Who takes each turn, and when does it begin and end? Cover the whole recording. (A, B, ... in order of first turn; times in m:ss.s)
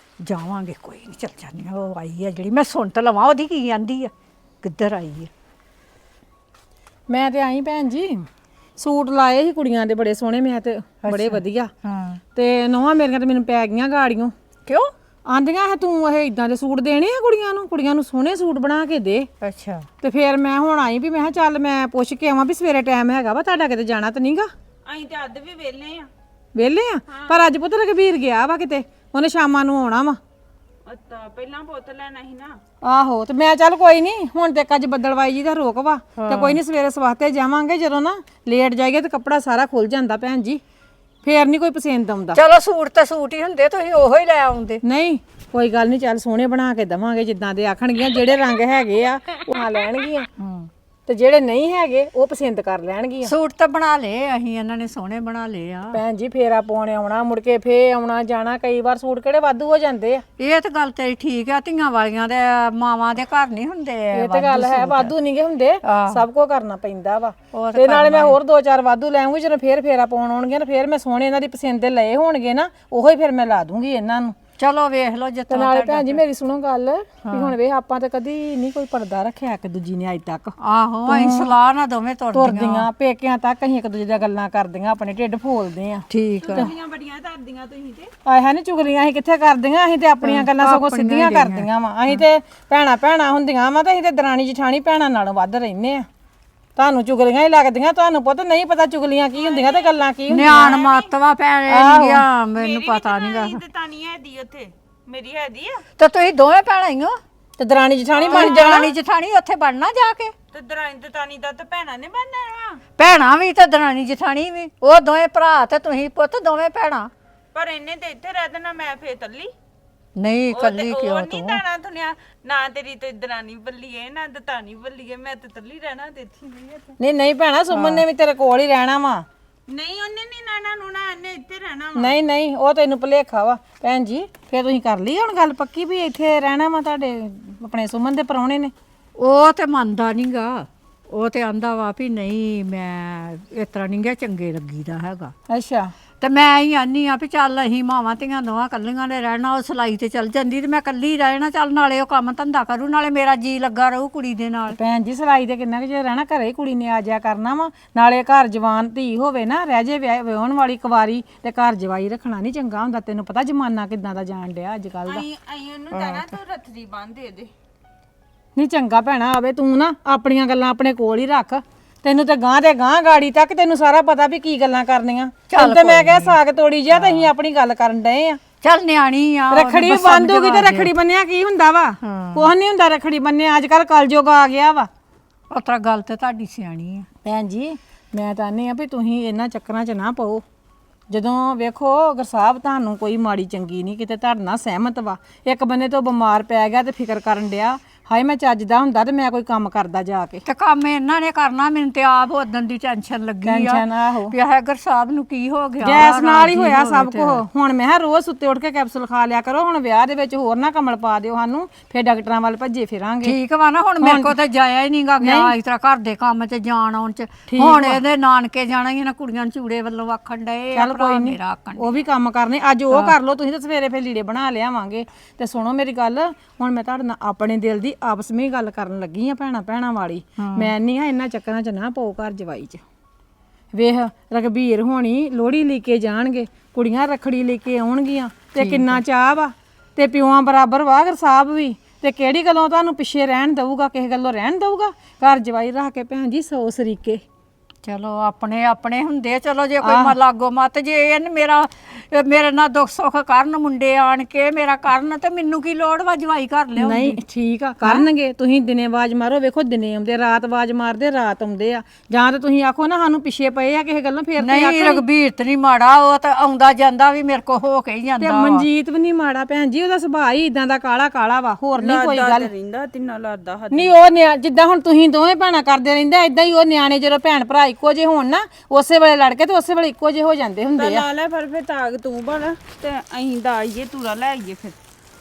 0:00.2-0:05.3 A
0:07.1-0:08.2 B
0:08.8-0:11.7 B
0:11.0-0:12.2 A
0:12.3-0:14.3 B
0:14.6-0:14.9 A
0:15.2-0:19.3 B
0:19.4-0:19.9 A
0:20.0-0:24.5 B
0:24.8-0:26.1 C
0:26.6-0:30.2 B
0:27.1-0:27.4 C
0:30.9-0:32.6 C
0:32.8-0:40.6 B
0:36.2-0:36.6 A
0:41.2-0:42.4 B
0:42.3-0:44.8 A
0:44.8-0:50.3 B
0:50.4-0:50.7 A
0:51.0-0:53.3 B
0:53.2-0:56.0 A
0:55.9-1:00.2 B
1:00.4-1:05.1 A
1:04.1-1:14.3 B
1:05.8-1:06.2 A
1:07.5-1:08.4 A
1:14.6-1:16.2 A
1:15.5-1:20.5 B
1:17.2-1:17.5 A
1:20.6-1:22.9 A
1:21.1-1:21.5 B
1:22.3-1:26.7 B
1:26.1-1:26.7 A
1:26.4-1:28.1 C
1:28.2-1:36.1 B
1:30.2-1:32.2 A
1:36.8-1:40.7 B
1:39.4-1:41.1 C
1:40.3-1:43.6 A
1:41.7-1:42.2 B
1:42.5-1:45.8 C
1:46.0-1:47.2 A
1:47.6-1:48.8 B
1:48.2-1:48.9 C
1:48.3-1:50.3 A
1:50.5-1:52.8 C
1:53.0-1:57.1 A
1:57.5-1:59.5 C
2:00.2-2:01.6 A
2:00.5-2:06.4 C
2:07.0-2:09.2 B
2:07.7-2:08.0 A
2:09.7-2:12.1 C
2:12.0-2:18.7 B
2:19.2-2:25.3 A
2:25.5-2:25.9 B
2:26.2-2:34.8 A
2:34.7-2:45.2 B
2:45.0-2:47.5 C
2:45.9-2:46.3 A
2:48.6-2:58.4 B
2:55.5-2:56.4 A
2:56.9-2:57.3 A
2:58.6-3:00.9 A
2:59.5-3:04.9 B
3:02.0-3:02.5 A
3:05.5-3:07.1 A
3:07.2-3:10.4 B
3:11.1-3:20.4 B
3:20.4-3:27.4 A
3:23.4-3:24.3 B
3:25.8-3:33.4 B
3:33.2-3:41.9 A
3:34.0-3:34.3 B
3:35.2-3:35.5 B
3:37.5-3:38.0 B
3:40.7-3:52.8 B
3:42.9-3:43.2 A
3:50.4-3:50.7 A
3:53.7-4:07.2 B
3:58.6-3:59.0 A
4:07.8-4:17.3 A
4:09.8-4:10.2 B
4:16.8-4:25.0 B
4:17.8-4:18.1 A
4:24.4-4:28.6 A
4:28.2-4:32.5 B
4:31.8-4:33.9 C
4:33.7-4:41.0 B
4:40.8-4:44.8 C